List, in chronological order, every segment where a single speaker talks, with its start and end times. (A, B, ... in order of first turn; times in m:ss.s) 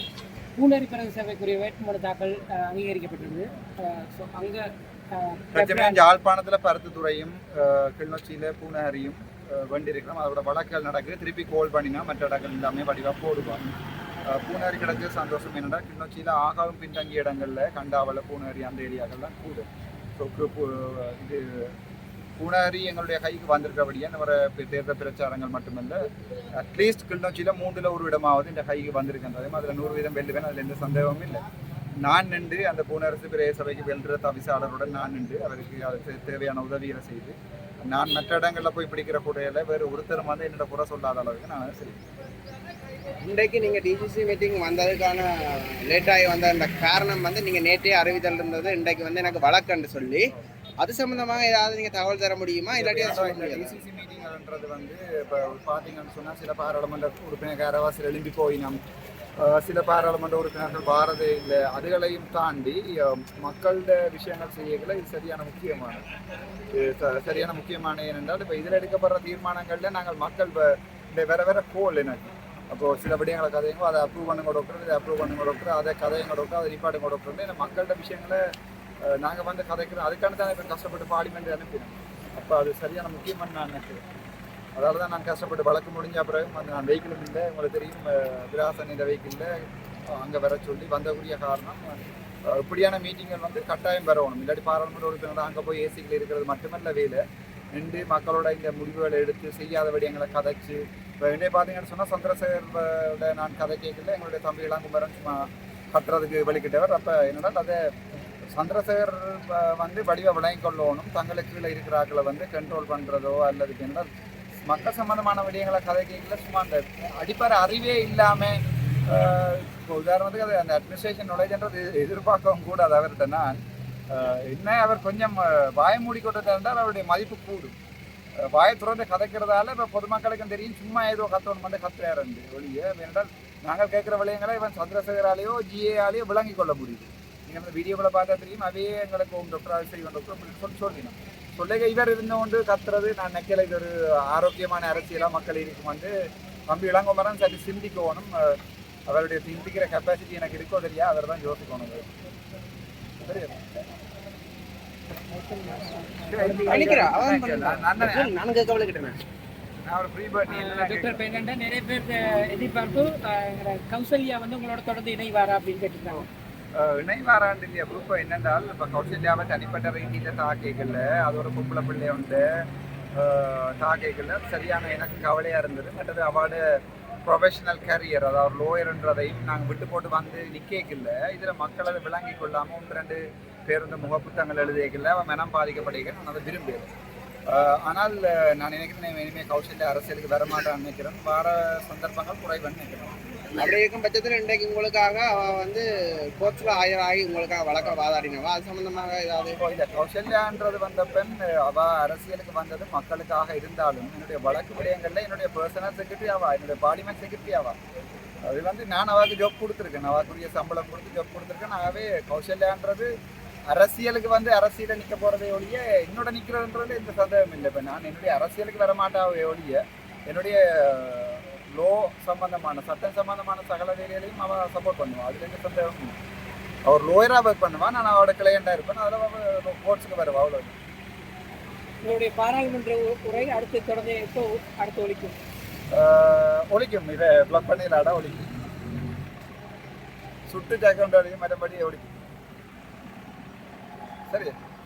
0:00.6-0:06.0 A
0:05.5-0:13.7 B
0:14.2-0:21.7 B
0:22.4-0:31.4 B
0:32.0-0:42.0 B
0:43.2-0:53.8 C
0:52.7-0:58.8 B
0:59.4-1:06.0 B
1:06.7-1:18.4 B
1:19.0-1:24.0 B
1:24.8-1:29.5 B
1:30.2-1:37.2 B
1:37.8-1:47.8 B
1:48.6-1:54.1 B
1:54.7-2:03.6 B
2:04.1-2:07.8 B
2:08.4-2:26.1 B
2:26.7-2:32.1 B
2:33.2-2:33.6 B
2:35.3-2:37.2 A
2:36.3-2:38.3 B
2:36.7-2:39.2 C
2:39.8-2:41.2 B
2:40.5-2:46.3 A
2:46.8-2:52.5 B
2:53.2-2:56.6 B
2:57.3-3:06.9 B
3:07.5-3:13.2 B
3:13.6-3:19.6 C
3:19.6-3:27.8 B
3:28.4-3:33.1 B
3:33.7-3:46.1 B
3:46.9-3:50.8 B
3:52.0-3:55.4 A
3:55.9-3:58.5 B
4:00.5-4:02.2 B
4:04.3-4:04.5 B